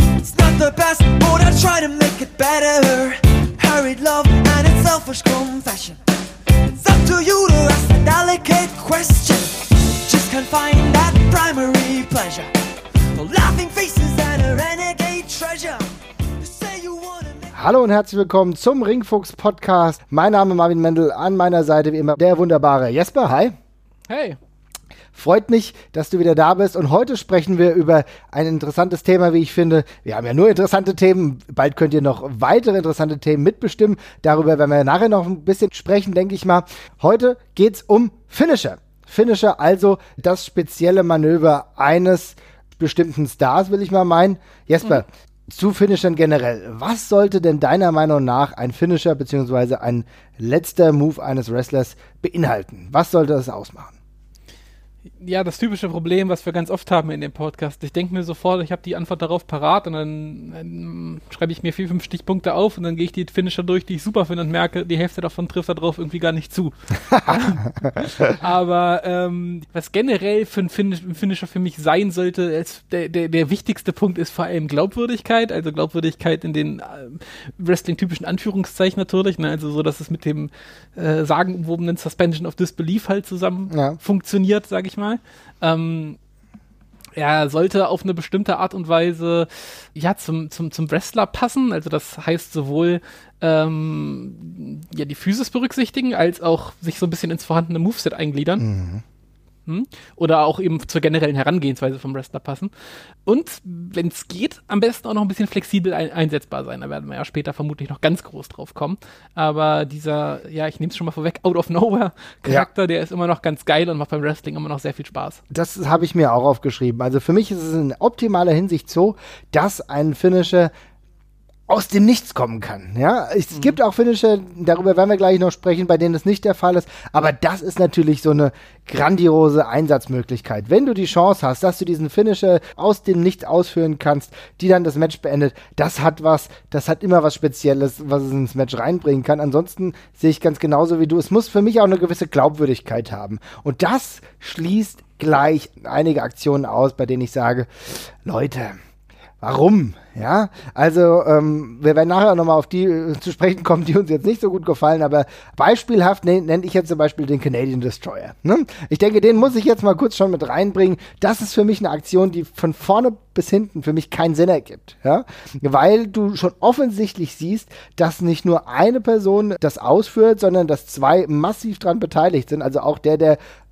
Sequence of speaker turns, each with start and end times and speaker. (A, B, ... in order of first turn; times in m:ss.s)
0:00.2-0:06.0 A
0:06.7-0:12.5 A
0:13.1-0:17.6 A
0:17.5-0:23.5 B
0:24.1-0:24.4 C
0:25.1-0:54.0 B
0:55.2-1:26.2 C
1:07.1-1:07.4 B
1:23.7-1:24.0 B
1:27.2-1:38.6 C
1:38.6-1:39.0 B
1:39.7-1:42.7 C
1:43.2-1:55.4 C
1:55.5-2:00.7 B
2:01.7-2:28.8 B
2:29.4-2:53.4 B